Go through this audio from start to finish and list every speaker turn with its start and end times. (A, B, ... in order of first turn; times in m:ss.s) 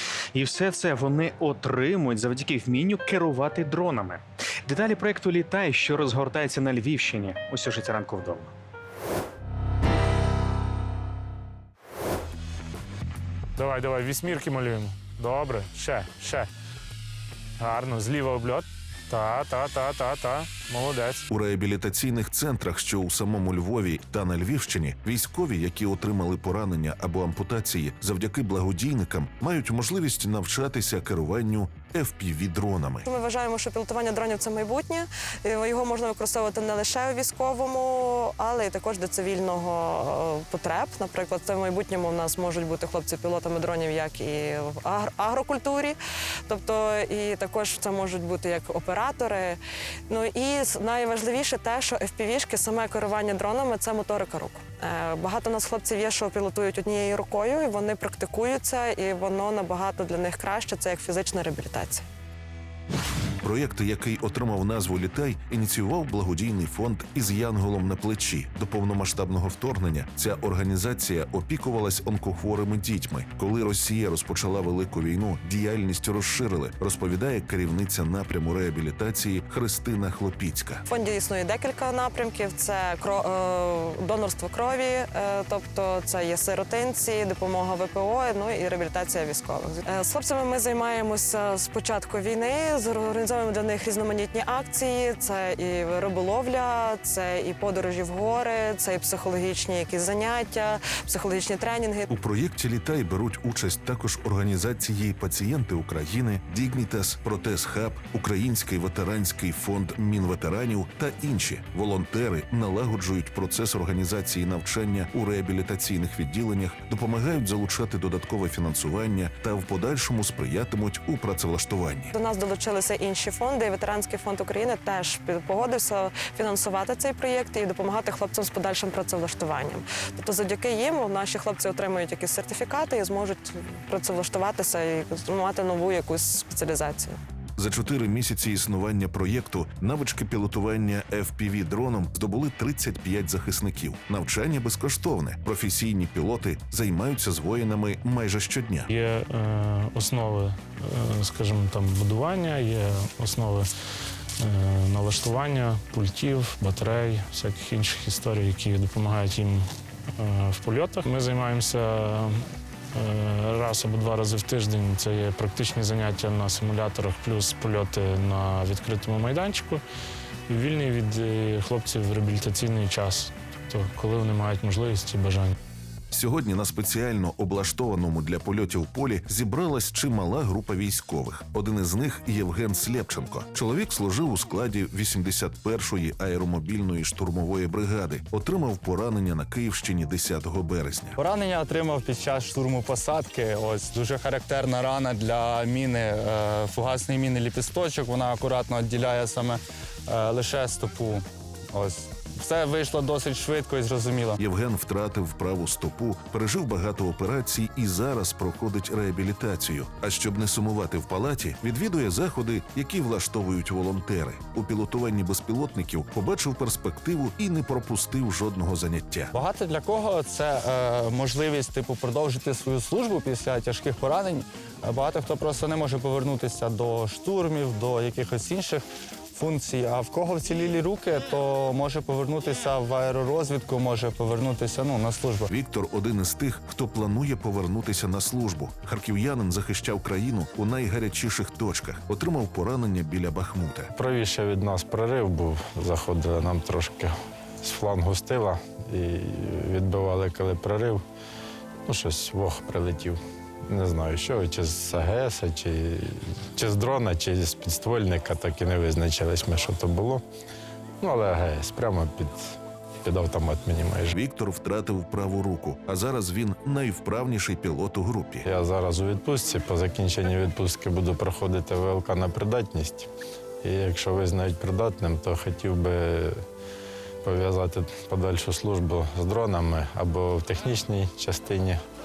0:00.3-0:08.5 A
0:13.6-0:16.5 B
0:17.6-0:21.2 B
0:21.3-0:33.1 C
0:33.0-0:49.6 D
0:50.1-1:02.0 D
1:03.4-1:20.8 C
1:20.9-1:42.1 D
1:42.1-2:02.1 C
2:02.1-2:17.2 D
2:17.6-2:28.9 C
2:28.9-2:33.7 B
2:34.4-2:39.6 B
2:40.2-2:49.8 B
2:50.5-2:55.6 B
2:56.1-3:11.2 C
3:11.2-3:24.4 E
3:24.4-3:39.3 C
3:39.3-3:55.5 E
3:55.5-4:03.9 C
4:04.0-4:11.0 F
4:11.9-4:20.2 F
4:21.0-4:22.5 F
4:23.0-4:24.2 F
4:24.1-4:28.5 C
4:28.4-4:33.1 F
4:33.6-4:36.4 F
4:37.2-4:41.8 F